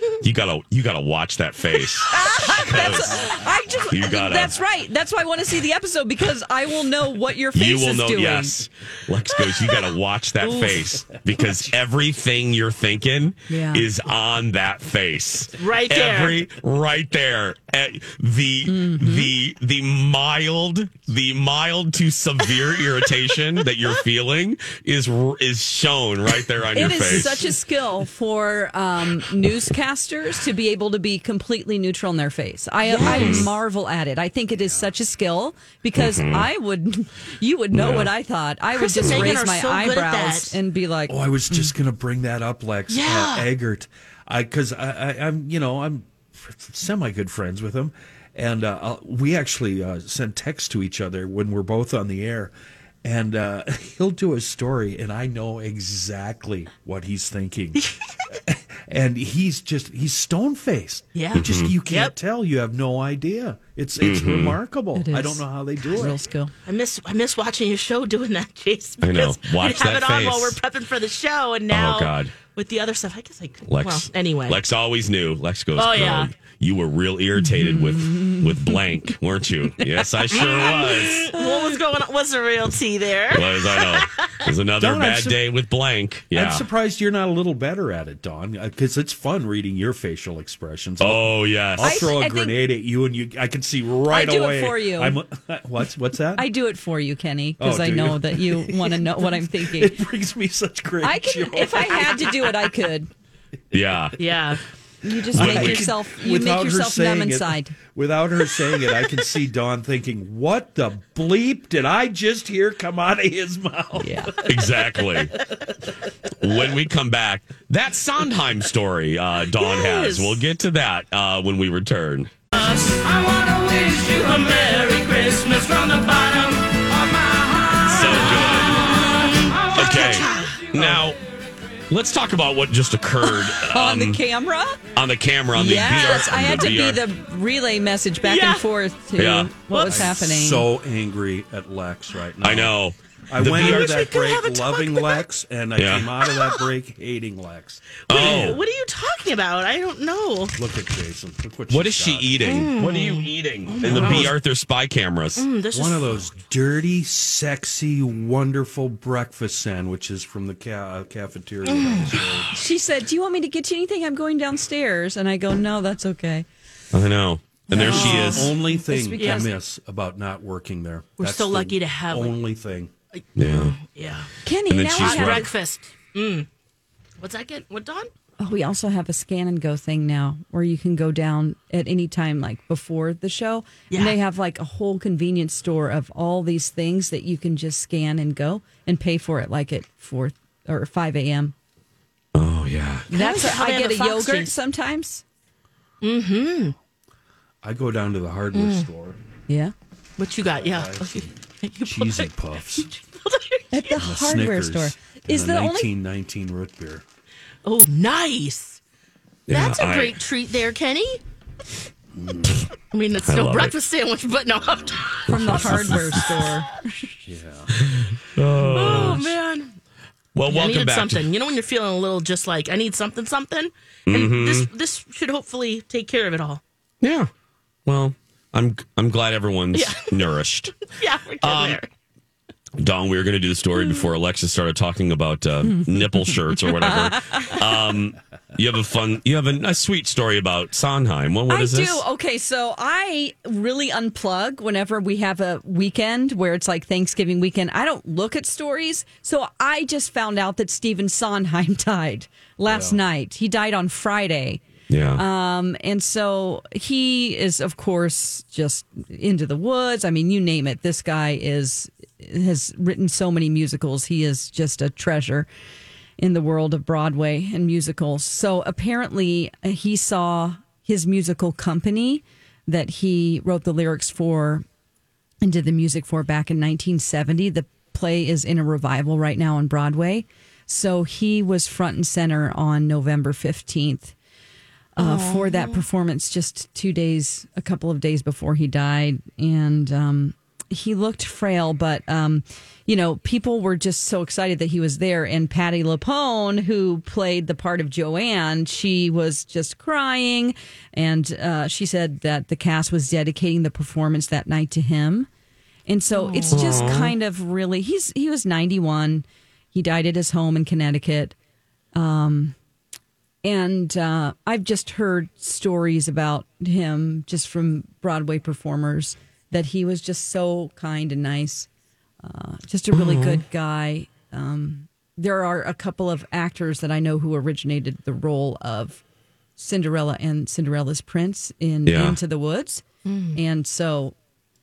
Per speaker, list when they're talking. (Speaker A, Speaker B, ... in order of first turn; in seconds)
Speaker A: 0.2-3.4, 3.9-4.6, 7.5-27.5, 32.9-33.5, 36.0-36.5, 37.7-38.1, 61.4-61.8, 64.0-64.6, 69.0-70.6, 71.7-72.3, 73.7-81.3, 83.3-86.7, 91.0-92.2, 103.7-104.2, 105.3-105.8, 114.4-115.3, 116.4-122.3, 127.8-128.9, 129.7-131.2, 131.9-134.2, 135.0-137.0, 139.2-139.6, 142.4-144.0, 145.8-146.1, 148.1-148.6, 151.7-155.5, 166.9-168.5, 173.3-173.8, 174.7-175.5, 192.3-193.1, 209.5-210.2, 213.3-213.8, 215.3-216.2, 217.7-219.3, 220.3-221.3, 224.1-224.7, 227.0-227.3, 227.9-230.7, 231.4-231.8, 232.8-242.0, 254.9-255.2, 306.5-307.1, 322.9-323.4, 331.9-332.2
Speaker B: 2.1-8.6, 13.5-13.9, 18.7-19.3, 26.7-41.7, 65.0-66.5, 77.4-79.1, 79.8-80.4, 91.8-92.6, 94.1-95.2, 96.4-100.0, 101.0-103.1, 105.0-107.8, 114.0-114.4, 133.3-134.8, 135.5-140.7, 162.5-166.5, 167.7-169.5, 174.4-175.5, 178.4-191.5, 193.1-195.2, 199.5-199.7, 203.7-205.9, 215.3-217.1, 235.7-237.6, 241.5-254.6, 255.2-265.5, 266.2-274.7, 275.4-284.1, 285.0-305.3, 305.9-311.4, 311.9-312.6, 313.4-321.7, 322.2-329.0, 329.6-334.1
Speaker C: 15.6-16.4, 32.8-33.5, 38.8-40.6, 42.9-43.5, 57.8-58.2, 61.1-62.1, 66.7-74.6, 75.8-76.3, 80.3-84.4, 104.2-104.6, 115.2-115.5, 119.5-120.4, 122.5-130.8, 138.2-138.7, 139.7-140.1, 143.5-145.3, 146.2-146.6, 148.1-150.6, 152.4-154.4, 155.4-156.3, 161.6-162.2, 167.7-168.4, 169.2-169.5, 171.2-172.4, 173.1-174.3, 175.0-176.5, 177.2-178.1, 183.9-184.2, 193.1-194.5, 196.0-196.8, 198.5-198.9, 200.2-204.0, 207.7-208.8, 209.5-211.2, 212.8-215.3, 218.6-219.8, 220.5-226.6, 229.7-231.9, 285.0-285.8, 306.1-306.9, 333.1-333.4
Speaker D: 41.1-52.5, 53.0-57.8, 58.5-66.2, 84.8-85.4, 86.3-96.5, 97.6-102.3, 105.3-114.3, 139.8-142.8, 143.3-148.6, 150.6-152.6, 153.8-154.3, 155.7-162.5, 167.7-172.9, 197.6-199.2, 200.6-202.9, 203.9-207.0, 212.1-212.7, 214.6-215.0, 217.2-217.7, 218.6-219.2, 252.7-253.0